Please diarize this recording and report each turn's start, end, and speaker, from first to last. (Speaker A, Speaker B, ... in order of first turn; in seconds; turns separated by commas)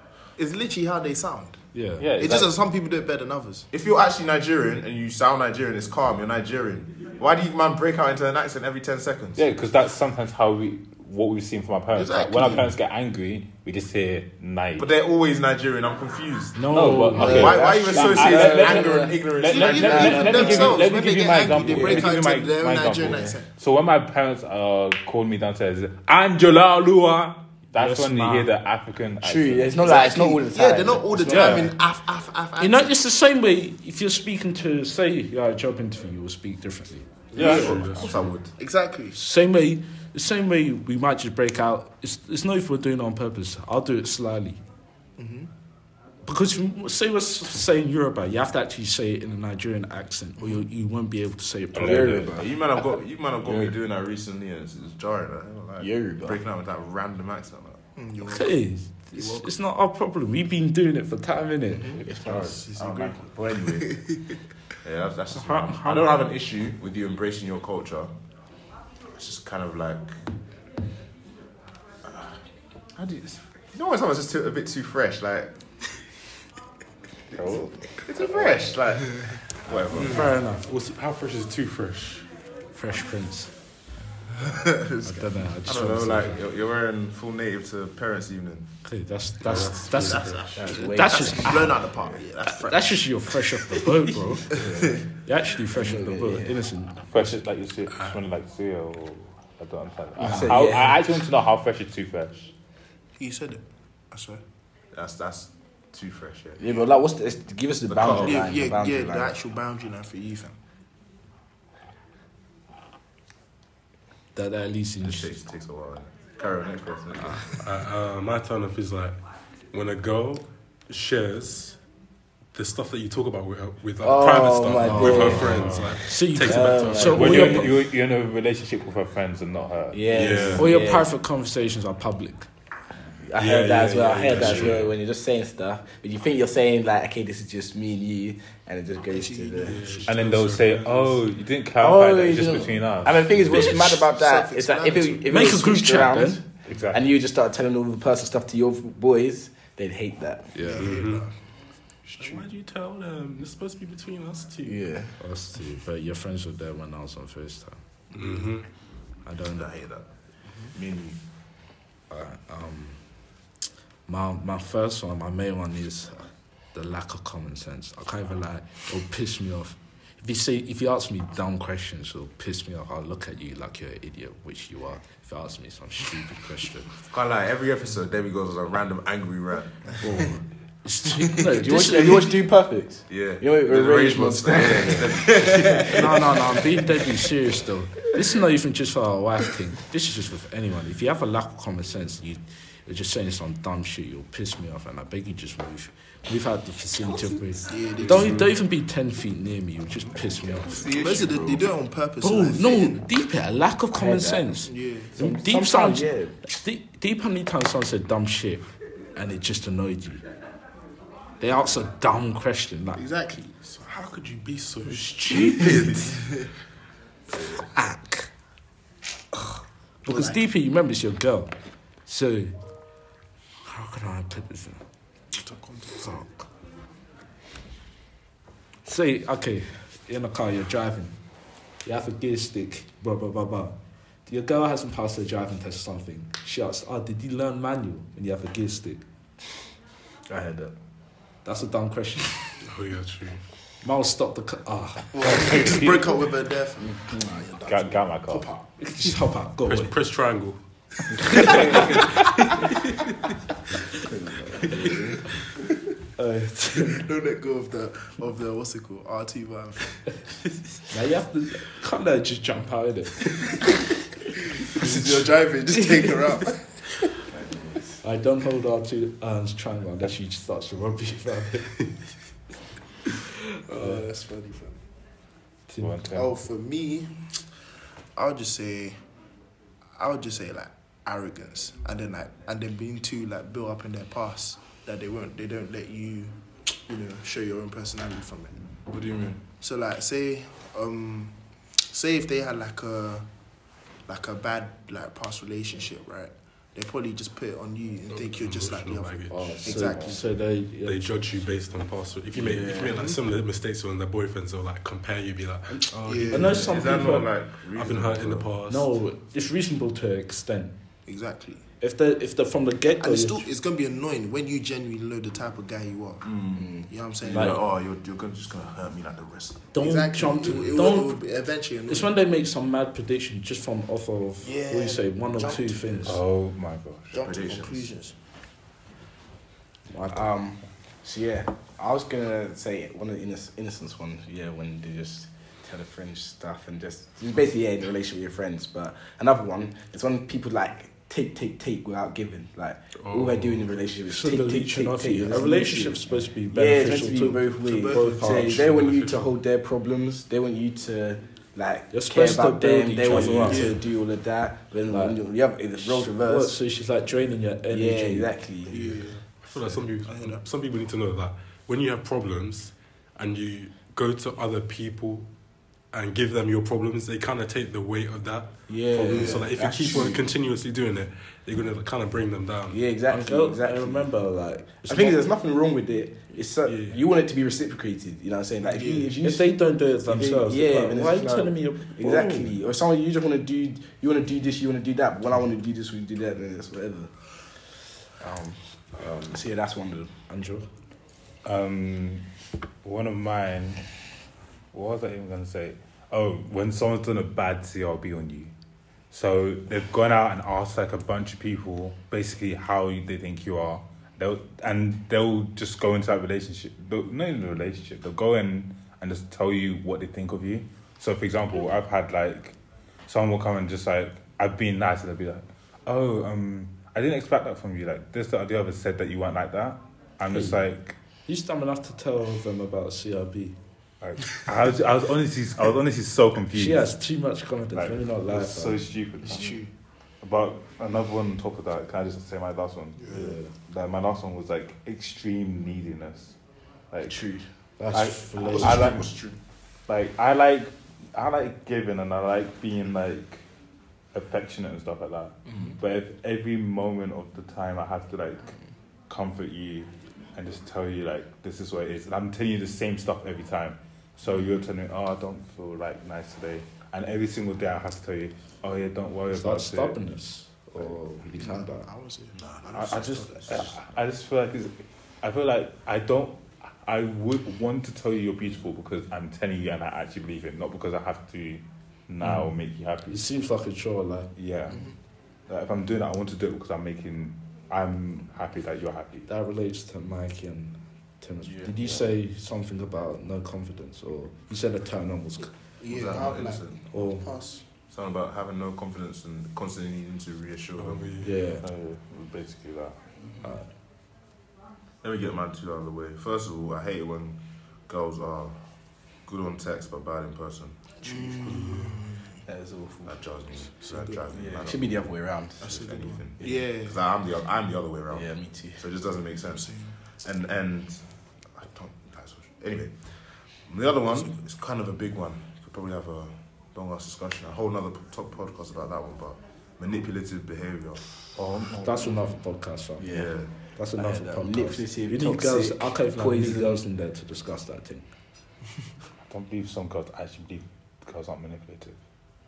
Speaker A: 0.4-1.6, Speaker B: 1.7-2.0, Speaker C: 2.0-2.5, Speaker A: 2.2-3.7, Speaker D: 3.7-9.5, Speaker C: 9.4-14.9, Speaker A: 11.9-12.7, Speaker D: 14.8-20.8, Speaker B: 16.6-17.8, Speaker C: 16.7-29.9, Speaker E: 17.2-20.9, Speaker A: 19.4-23.5, Speaker E: 21.5-22.1, Speaker E: 23.1-23.3, Speaker B: 27.7-28.5, Speaker E: 29.2-31.6, Speaker A: 29.8-33.0, Speaker B: 31.3-31.7, Speaker C: 31.3-31.7, Speaker B: 32.6-37.1, Speaker A: 37.3-37.9, Speaker D: 37.4-38.5, Speaker C: 37.4-38.1, Speaker F: 37.4-38.3, Speaker A: 38.6-39.2, Speaker B: 39.1-44.6, Speaker A: 45.2-45.5, Speaker B: 46.2-52.3, Speaker C: 51.8-52.3, Speaker E: 51.8-52.5, Speaker D: 52.3-57.8, Speaker E: 55.8-56.4, Speaker A: 58.0-58.6, Speaker B: 58.2-62.5, Speaker A: 59.1-59.5, Speaker A: 61.7-64.4, Speaker D: 62.1-64.0, Speaker E: 62.1-62.5, Speaker D: 64.8-68.1, Speaker B: 65.3-66.2, Speaker D: 69.1-70.2, Speaker D: 72.0-72.4, Speaker D: 73.0-75.5, Speaker C: 77.3-77.8, Speaker D: 78.0-80.3, Speaker F: 79.9-82.3, Speaker B: 79.9-80.6, Speaker B: 82.8-83.5, Speaker B: 85.0-86.4, Speaker D: 85.6-88.7, Speaker B: 88.8-90.2, Speaker F: 89.4-90.6, Speaker A: 90.1-93.0, Speaker E: 90.5-91.8, Speaker B: 90.8-91.8, Speaker B: 92.4-94.5, Speaker E: 94.5-95.0, Speaker A: 94.6-94.9, Speaker B: 95.2-97.4, Speaker E: 95.7-96.6, Speaker C: 97.1-102.5, Speaker E: 100.2-101.0, Speaker B: 100.2-100.6, Speaker A: 103.2-104.4, Speaker D: 104.9-106.6, Speaker E: 106.6-109.3, Speaker D: 107.9-108.5, Speaker A: 108.1-110.6, Speaker B: 114.3-115.3, Speaker D: 115.0-117.6, Speaker F: 117.6-119.2, Speaker F: 119.7-121.8, Speaker F: 122.5-127.7, Speaker E: 124.0-127.7, Speaker B: 124.8-127.8, Speaker C: 127.0-130.6, Speaker E: 129.9-131.1, Speaker F: 130.1-130.8, Speaker B: 130.6-132.5, Speaker E: 133.2-139.8, Speaker F: 133.4-135.0, Speaker A: 139.1-140.2, Speaker F: 139.6-141.2, Speaker C: 140.1-143.7, Speaker E: 141.8-150.8, Speaker A: 143.4-145.4, Speaker B: 145.3-146.4, Speaker C: 146.7-147.1, Speaker B: 150.6-150.9, Speaker A: 150.6-151.3, Speaker F: 150.8-151.3, Speaker F: 152.1-154.9, Speaker A: 152.2-152.4, Speaker E: 154.6-155.1, Speaker B: 155.2-157.8, Speaker F: 158.1-158.7, Speaker B: 159.2-159.7, Speaker D: 159.5-160.1, Speaker D: 160.7-161.2, Speaker B: 162.1-163.0, Speaker B: 164.1-176.9, Speaker D: 177.1-180.2, Speaker B: 180.0-182.4, Speaker E: 181.5-186.3, Speaker D: 183.1-186.4, Speaker B: 185.9-200.8, Speaker A: 197.6-198.5, Speaker A: 200.5-203.1, Speaker D: 200.7-201.7, Speaker B: 202.2-210.2, Speaker E: 203.9-204.6, Speaker A: 204.7-205.2, Speaker E: 205.1-206.4, Speaker B: 211.4-213.0, Speaker A: 213.0-213.8, Speaker F: 213.8-216.0, Speaker B: 214.9-216.1, Speaker A: 215.5-216.5, Speaker B: 217.4-218.3, Speaker B: 220.1-221.5, Speaker A: 220.1-220.4, Speaker B: 222.1-222.5, Speaker B: 223.6-224.8, Speaker A: 225.3-226.2, Speaker B: 226.0-226.5, Speaker B: 228.9-231.2, Speaker B: 231.8-239.0, Speaker E: 240.3-240.7, Speaker B: 241.4-242.6, Speaker F: 242.6-243.4, Speaker B: 243.8-245.6, Speaker A: 245.1-248.6, Speaker C: 245.2-246.2, Speaker E: 246.8-247.4, Speaker C: 247.6-248.5, Speaker B: 248.8-249.9, Speaker F: 249.6-250.6, Speaker B: 251.4-252.0, Speaker F: 251.4-252.1, Speaker E: 254.1-255.2, Speaker B: 256.2-257.0, Speaker A: 256.9-260.2, Speaker B: 260.9-263.7, Speaker A: 264.7-266.8, Speaker E: 267.4-267.9, Speaker B: 268.0-271.8, Speaker A: 273.7-274.8, Speaker B: 273.7-274.0, Speaker B: 275.7-276.1, Speaker C: 275.8-276.3, Speaker A: 276.1-277.1, Speaker A: 278.2-279.0, Speaker A: 280.0-286.3, Speaker A: 286.9-288.6, Speaker D: 288.9-289.4, Speaker A: 289.6-291.4, Speaker A: 291.9-293.3, Speaker A: 294.1-300.3, Speaker F: 298.1-299.9, Speaker B: 299.3-301.1, Speaker F: 300.8-309.0, Speaker E: 302.4-303.1, Speaker A: 306.0-306.6, Speaker B: 306.3-307.3, Speaker D: 306.6-308.5, Speaker B: 308.7-310.7, Speaker A: 311.1-311.6, Speaker B: 311.8-313.5, Speaker A: 313.0-317.6, Speaker D: 316.2-316.7, Speaker D: 317.2-319.7, Speaker B: 319.7-321.2, Speaker A: 319.8-322.1, Speaker B: 321.9-326.2, Speaker A: 324.4-326.1, Speaker C: 326.1-327.2, Speaker A: 327.1-328.1, Speaker D: 327.1-327.9, Speaker B: 329.9-330.3, Speaker E: 330.1-356.6, Speaker F: 343.0-343.7, Speaker B: 344.1-348.7, Speaker A: 347.6-348.9, Speaker F: 348.5-349.3, Speaker B: 351.9-353.8, Speaker A: 353.3-353.8, Speaker B: 354.9-355.2, Speaker B: 355.8-358.3, Speaker E: 357.7-359.0, Speaker A: 358.7-360.4, Speaker F: 359.4-365.3, Speaker F: 365.9-372.8, Speaker E: 368.7-370.2, Speaker A: 369.1-369.5, Speaker E: 372.7-374.1, Speaker B: 373.1-375.2, Speaker E: 374.9-379.5, Speaker F: 376.6-377.0, Speaker A: 378.6-379.1, Speaker B: 379.2-382.6, Speaker E: 380.1-387.1, Speaker E: 388.2-390.1, Speaker B: 390.3-390.7, Speaker C: 391.4-392.3, Speaker C: 392.8-393.8, Speaker C: 394.7-398.5, Speaker C: 399.1-412.6, Speaker C: 413.1-420.9, Speaker B: 420.3-420.6, Speaker B: 421.3-423.6, Speaker C: 424.0-426.9, Speaker B: 426.5-428.9, Speaker C: 427.7-429.7, Speaker A: 429.2-429.7, Speaker C: 430.2-436.4, Speaker A: 433.0-433.3, Speaker B: 433.1-433.5, Speaker C: 436.9-437.2, Speaker E: 437.1-437.5, Speaker B: 437.8-439.0, Speaker C: 437.9-439.1, Speaker A: 438.4-439.4, Speaker C: 439.9-443.4, Speaker C: 444.1-448.6, Speaker C: 449.1-460.0, Speaker B: 459.3-461.9, Speaker A: 461.4-463.7, Speaker D: 462.4-463.8, Speaker C: 462.7-473.2, Speaker B: 472.2-472.5, Speaker B: 473.1-474.3, Speaker C: 474.4-474.9, Speaker C: 475.5-479.3, Speaker B: 479.3-485.5, Speaker A: 485.8-487.6, Speaker D: 485.9-486.8, Speaker B: 486.9-487.3, Speaker D: 487.9-491.1, Speaker F: 490.8-491.4, Speaker B: 491.2-491.6, Speaker C: 491.6-493.0, Speaker D: 495.0-498.6, Speaker D: 499.2-501.3, Speaker A: 501.0-502.4, Speaker F: 501.4-502.0, Speaker E: 502.5-503.2, Speaker D: 503.1-505.1, Speaker A: 503.9-504.2, Speaker E: 504.3-505.7, Speaker A: 505.6-507.0, Speaker D: 505.6-513.0, Speaker E: 508.1-508.8, Speaker A: 509.5-509.9, Speaker D: 513.7-521.0, Speaker C: 521.4-522.1, Speaker B: 521.8-528.1, Speaker E: 523.0-523.3, Speaker D: 523.1-523.5, Speaker E: 524.0-526.8, Speaker C: 529.3-532.0